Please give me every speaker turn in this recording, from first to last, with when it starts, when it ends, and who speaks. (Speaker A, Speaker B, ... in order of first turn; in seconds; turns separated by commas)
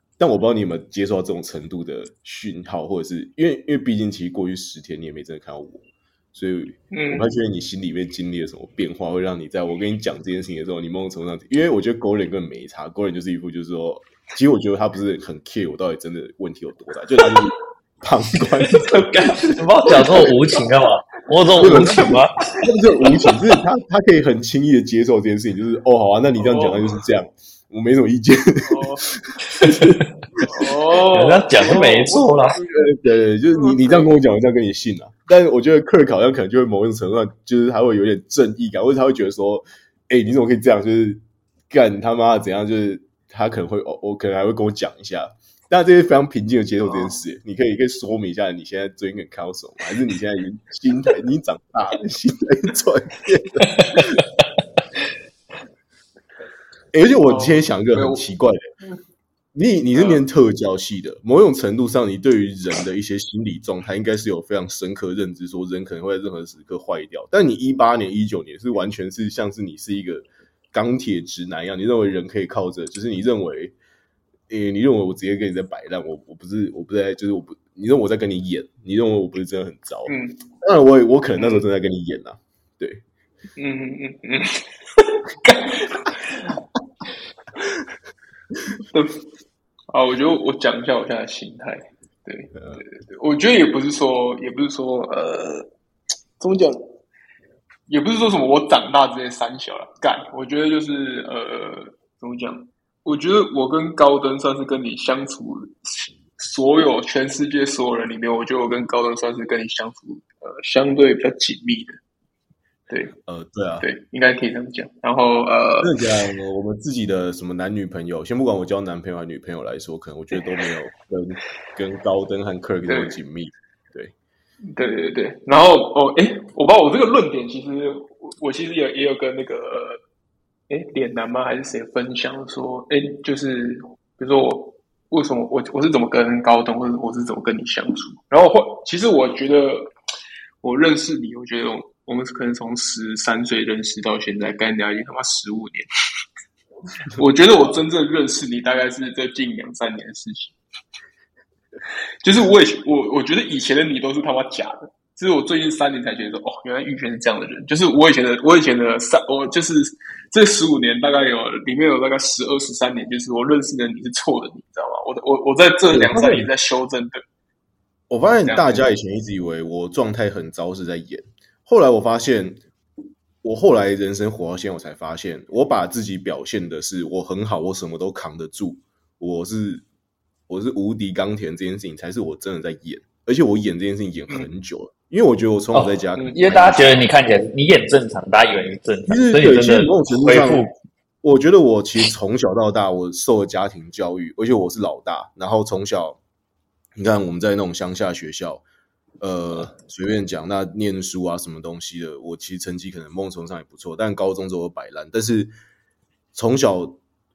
Speaker A: 0.2-19.5, Speaker B: 6.9-7.3, Speaker C: 19.1-22.4, Speaker B: 19.9-20.6, Speaker A: 21.6-28.9, Speaker B: 21.6-22.1, Speaker B: 26.4-26.8, Speaker B: 28.7-29.0, Speaker B: 30.4-32.7, Speaker C: 31.1-32.6, Speaker A: 32.6-54.2, Speaker B: 33.5-34.1, Speaker B: 46.8-47.2, Speaker A: 56.9-58.6, Speaker B: 57.2-58.2, Speaker A: 59.5-73.7, Speaker B: 59.9-60.2, Speaker A: 74.5-83.0, Speaker B: 80.1-80.4, Speaker B: 81.3-81.6, Speaker B: 83.5-86.5, Speaker B: 88.9-89.2, Speaker B: 89.9-95.7, Speaker A: 92.5-92.8, Speaker B: 96.4-96.9, Speaker B: 97.9-112.0, Speaker A: 113.3-113.9, Speaker B: 113.8-115.9, Speaker A: 115.8-124.1, Speaker B: 122.9-123.1, Speaker B: 124.7-130.0, Speaker B: 130.7-139.9, Speaker B: 140.6-145.8, Speaker B: 147.1-150.5, Speaker B: 152.2-167.2, Speaker A: 165.9-166.5, Speaker A: 168.1-172.6, Speaker B: 168.4-168.8, Speaker A: 173.4-179.8, Speaker A: 180.5-187.0, Speaker C: 185.7-190.7, Speaker A: 189.1-190.7, Speaker A: 191.2-196.2, Speaker A: 197.0-198.6, Speaker A: 199.2-205.5, Speaker A: 206.3-207.0